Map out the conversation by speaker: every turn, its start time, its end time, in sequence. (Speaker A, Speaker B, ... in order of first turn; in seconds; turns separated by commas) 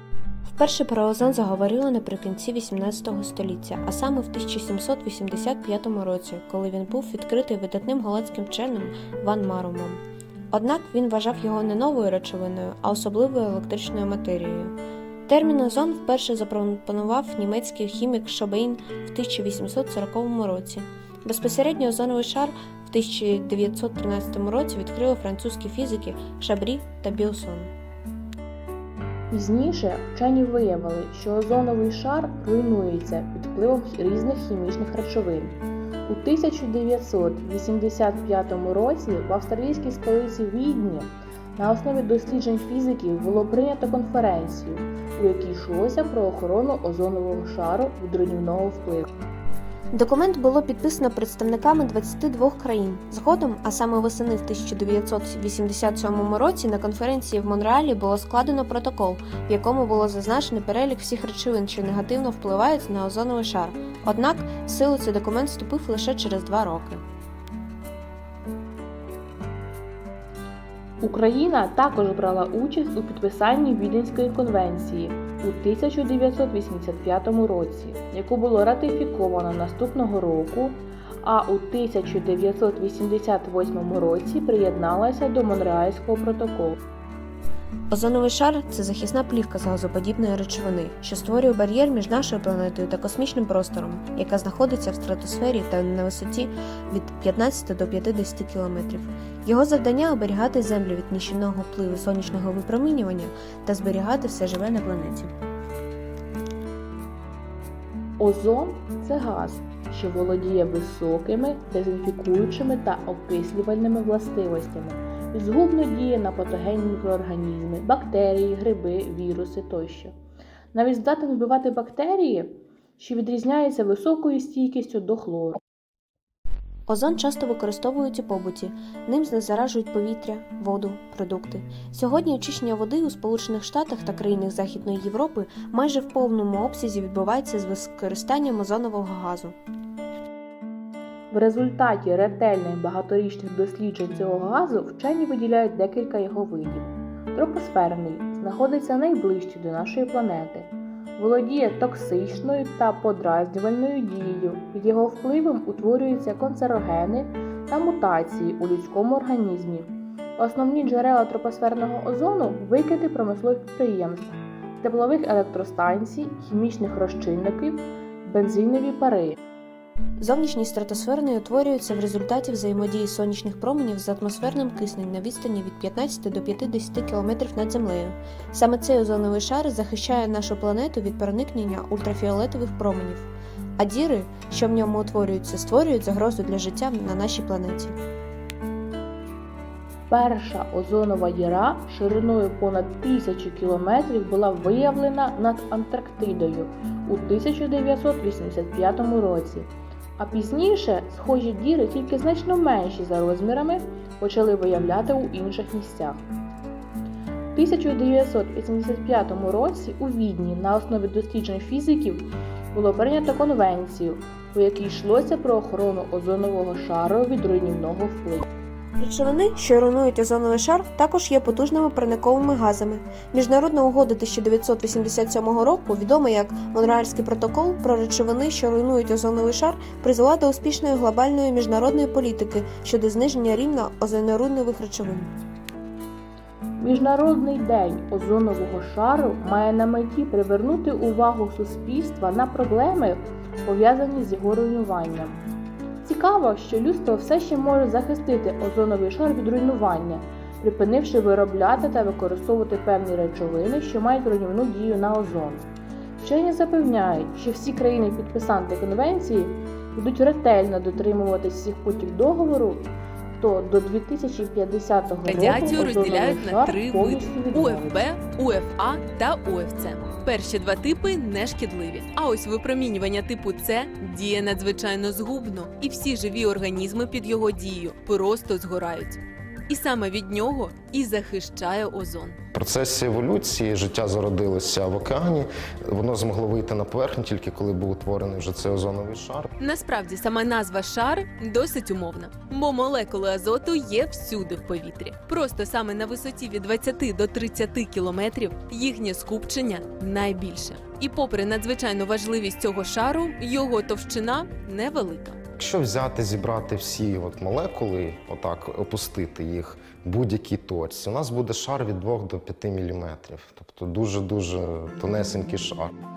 Speaker A: 0.5-14.8, Speaker A: 15.3-27.7, Speaker B: 29.3-49.1, Speaker A: 49.9-67.0, Speaker B: 71.0-86.8, Speaker A: 87.9-105.3, Speaker B: 108.2-120.1, Speaker B: 120.7-125.6, Speaker A: 126.9-139.6, Speaker B: 141.3-169.4, Speaker A: 170.2-188.0, Speaker B: 190.1-206.2, Speaker B: 207.5-218.4, Speaker A: 219.0-235.3, Speaker B: 236.8-245.4, Speaker B: 246.0-255.7, Speaker B: 256.2-268.0, Speaker C: 265.2-282.4, Speaker D: 282.5-289.5, Speaker C: 289.6-305.4, Speaker D: 305.6-315.9